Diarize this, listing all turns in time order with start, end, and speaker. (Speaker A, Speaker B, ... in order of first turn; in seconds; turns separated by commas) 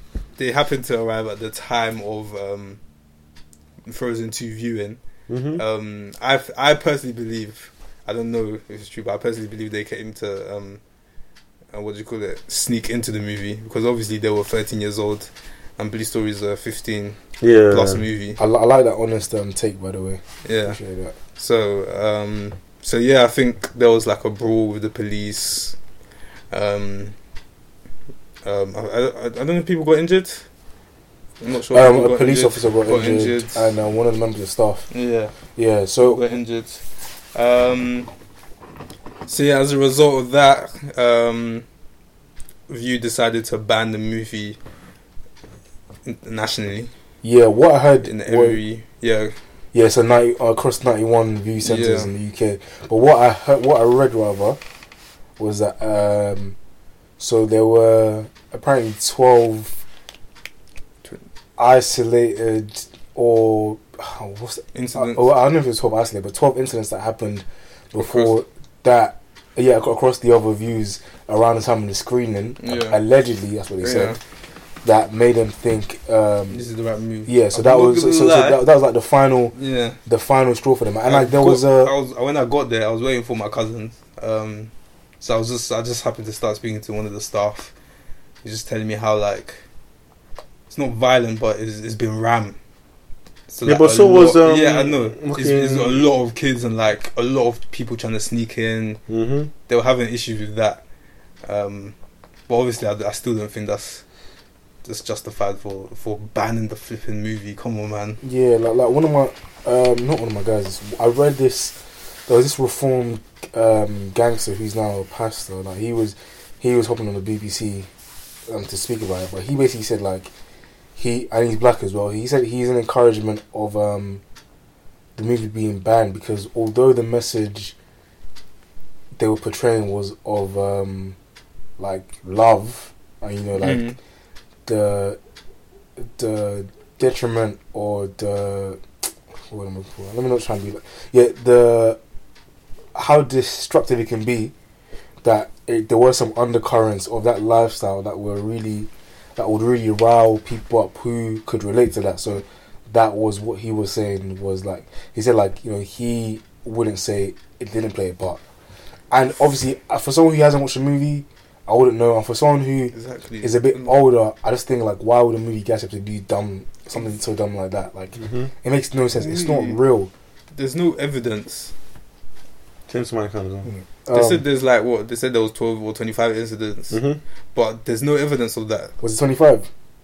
Speaker A: 0.4-2.8, Speaker A: 3.8-5.0, Speaker B: 5.3-5.6, Speaker A: 5.5-10.8, Speaker A: 11.7-18.4, Speaker B: 17.4-18.0, Speaker C: 18.4-21.1, Speaker A: 20.4-20.8, Speaker A: 21.4-25.8, Speaker A: 26.5-27.1, Speaker A: 28.4-30.4, Speaker A: 31.4-33.7, Speaker C: 31.7-34.9, Speaker A: 34.9-35.4, Speaker C: 35.5-36.2, Speaker A: 36.0-38.1, Speaker A: 39.2-41.6, Speaker A: 42.7-44.6, Speaker A: 46.0-46.9, Speaker C: 47.2-48.6, Speaker A: 48.0-49.4, Speaker C: 49.7-54.6, Speaker A: 51.6-52.1, Speaker C: 55.4-56.5, Speaker C: 57.2-59.8, Speaker C: 61.6-74.2, Speaker A: 64.7-65.3, Speaker A: 68.0-68.4, Speaker A: 72.6-73.0, Speaker A: 73.8-74.2, Speaker C: 74.8-76.7, Speaker A: 76.5-78.7, Speaker C: 77.2-81.9, Speaker A: 79.5-80.0, Speaker A: 81.0-87.7, Speaker A: 88.4-89.6, Speaker A: 90.7-92.5, Speaker A: 93.5-99.0, Speaker B: 93.6-96.0, Speaker B: 99.1-99.5, Speaker A: 99.7-100.8, Speaker A: 101.4-101.9, Speaker A: 102.5-104.0, Speaker A: 104.8-108.2, Speaker C: 108.2-117.9, Speaker C: 118.5-120.3, Speaker C: 121.0-124.2, Speaker C: 125.2-127.7, Speaker C: 129.2-131.2, Speaker C: 131.8-133.9, Speaker A: 133.6-134.0, Speaker C: 134.7-135.2, Speaker C: 136.0-138.8, Speaker C: 139.5-142.0, Speaker C: 142.9-144.5, Speaker C: 145.2-158.4, Speaker C: 159.1-170.1, Speaker A: 162.9-163.9, Speaker B: 168.2-168.5, Speaker A: 169.2-169.8, Speaker A: 170.5-171.7, Speaker B: 172.9-173.7, Speaker C: 173.7-174.4, Speaker A: 174.1-177.0, Speaker B: 176.9-177.2, Speaker A: 177.5-178.9, Speaker C: 179.0-179.7